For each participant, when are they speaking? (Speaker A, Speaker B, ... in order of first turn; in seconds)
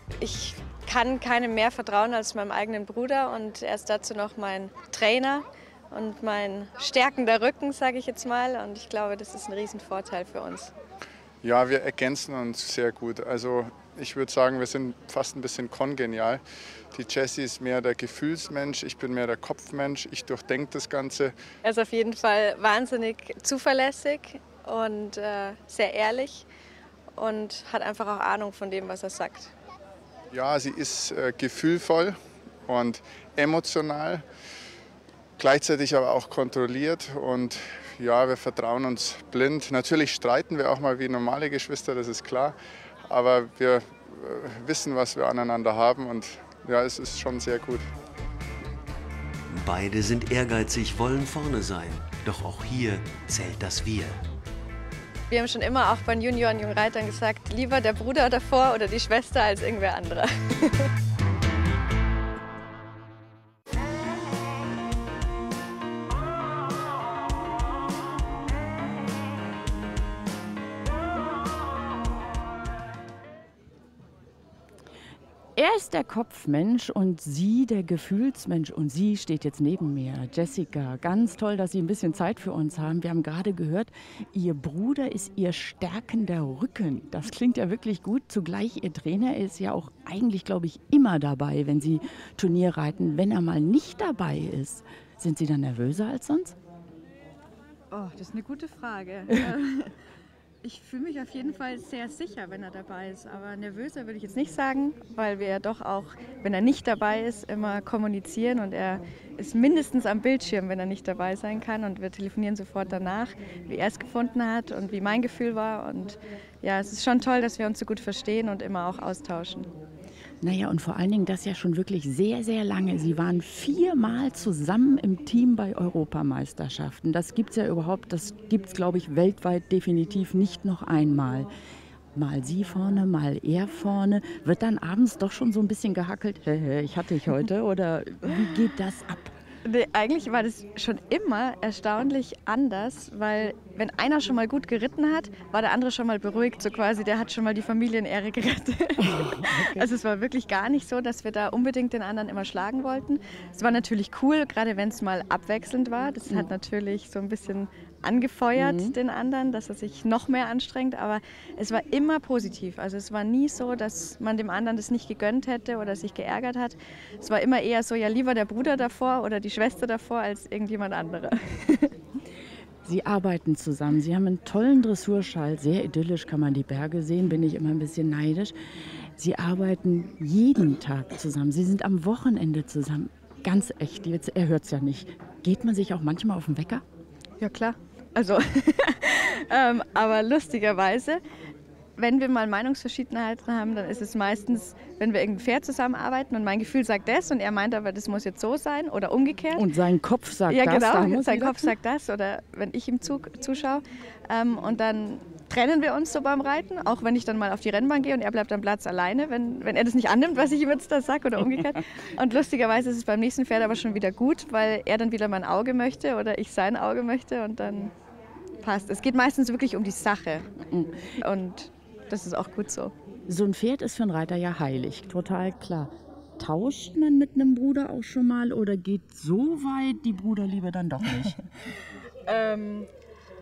Speaker A: 0.2-10.7, 21.6-26.5, 27.1-29.5, 55.3-60.9, 97.9-99.9, 100.6-119.7, 139.7-171.9, 187.4-191.2, 192.0-199.7, 200.5-217.9, 218.6-220.5, 221.2-222.9, 232.3-232.9
Speaker B: 11.4-16.4, 16.9-21.3, 30.3-32.2, 32.7-34.2, 35.4-42.6, 43.1-47.8
Speaker C: 49.5-54.2
Speaker D: 75.6-96.6, 120.4-131.5, 132.2-139.3, 149.0-149.9, 158.6-159.0, 172.8-178.5, 179.2-186.8, 199.6-201.7, 220.6-221.1, 223.3-231.4